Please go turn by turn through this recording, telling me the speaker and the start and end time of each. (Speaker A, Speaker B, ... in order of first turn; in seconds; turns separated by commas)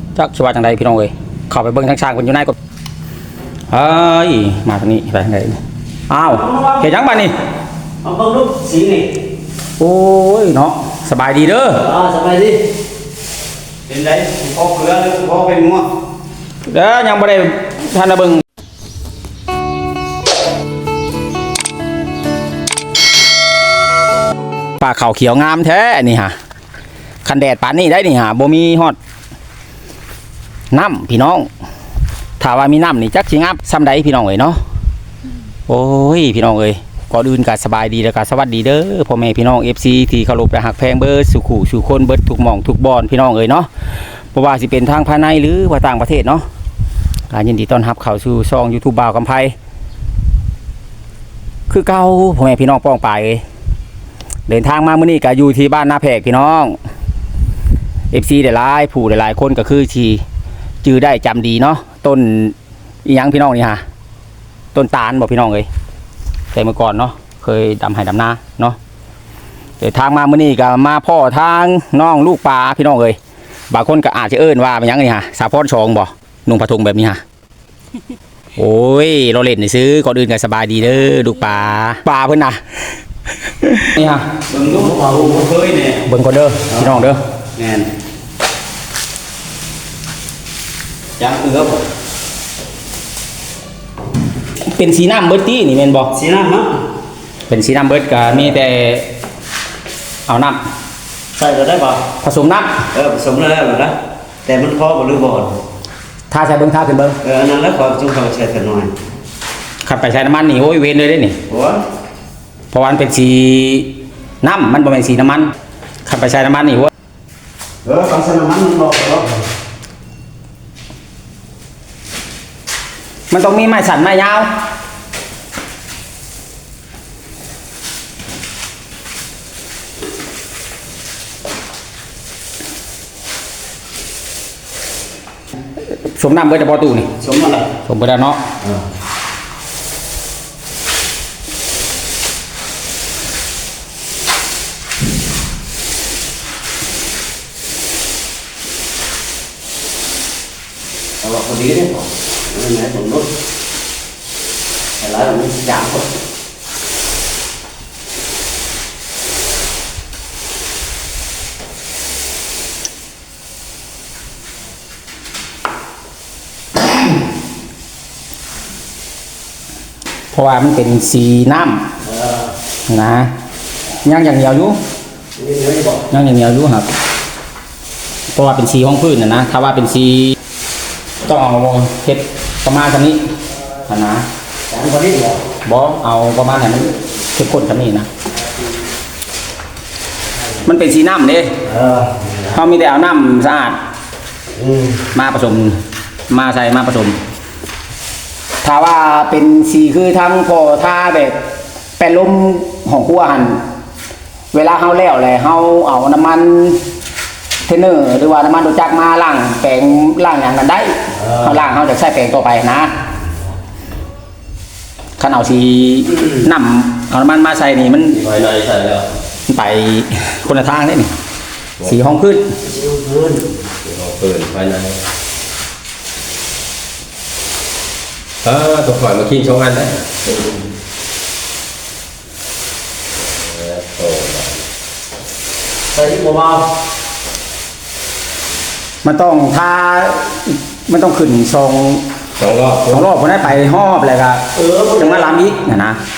Speaker A: 0.1-2.5, Speaker A: 3.7-5.6, Speaker A: 6.1-7.3, Speaker B: 6.3-6.9, Speaker B: 8.0-9.1, Speaker A: 9.8-11.8, Speaker B: 11.7-12.6, Speaker B: 13.9-15.9, Speaker A: 16.7-18.4, Speaker A: 24.8-26.3, Speaker A: 27.2-29.0, Speaker A: 30.7-31.5, Speaker A: 32.4-34.6, Speaker A: 35.7-43.7, Speaker A: 44.3-46.5, Speaker A: 47.3-49.5, Speaker A: 51.7-53.4, Speaker A: 54.5-56.8, Speaker A: 58.1-60.2, Speaker A: 60.8-63.8, Speaker A: 64.7-65.7, Speaker A: 66.5-68.8, Speaker A: 69.8-73.2, Speaker A: 73.7-77.2, Speaker A: 78.6-82.6, Speaker A: 83.4-84.3, Speaker B: 84.5-86.1, Speaker A: 86.1-87.2, Speaker B: 86.7-87.0, Speaker B: 87.6-87.9, Speaker B: 91.2-91.9, Speaker A: 94.6-96.1, Speaker B: 96.1-96.8, Speaker A: 97.5-99.1, Speaker A: 100.3-100.6, Speaker B: 101.3-102.0, Speaker A: 102.2-102.8, Speaker B: 102.9-105.6, Speaker A: 106.3-107.2, Speaker B: 107.2-108.9, Speaker A: 109.8-111.4, Speaker B: 111.5-111.8, Speaker A: 112.7-113.9, Speaker A: 114.4-115.5, Speaker A: 116.1-116.9, Speaker B: 117.8-119.4, Speaker A: 123.3-124.5, Speaker A: 136.1-137.1, Speaker B: 137.2-137.7, Speaker A: 137.9-138.4, Speaker B: 151.2-153.3, Speaker B: 155.0-156.1, Speaker A: 170.3-171.8, Speaker B: 172.1-172.5, Speaker A: 172.9-173.3, Speaker A: 174.1-174.8, Speaker B: 175.4-176.1, Speaker A: 176.1-176.9, Speaker A: 178.3-180.4, Speaker A: 181.2-183.3, Speaker A: 183.9-184.2, Speaker B: 184.7-185.4, Speaker A: 185.7-188.1, Speaker A: 190.7-191.5, Speaker B: 191.6-192.6, Speaker A: 192.5-193.8, Speaker B: 194.6-195.0, Speaker A: 195.1-197.2, Speaker A: 198.6-201.4, Speaker A: 202.0-203.6, Speaker A: 204.5-206.8, Speaker A: 207.7-212.9, Speaker B: 211.2-211.6, Speaker A: 215.2-218.2, Speaker C: 218.1-219.1, Speaker A: 219.5-221.1, Speaker A: 221.8-222.5, Speaker B: 222.6-223.5, Speaker C: 223.8-225.0, Speaker C: 228.4-230.1, Speaker B: 230.3-230.7, Speaker C: 233.3-234.6, Speaker B: 235.9-236.7, Speaker A: 239.0-242.1, Speaker C: 242.4-243.1, Speaker A: 242.9-244.4, Speaker B: 244.5-245.5, Speaker A: 245.0-246.0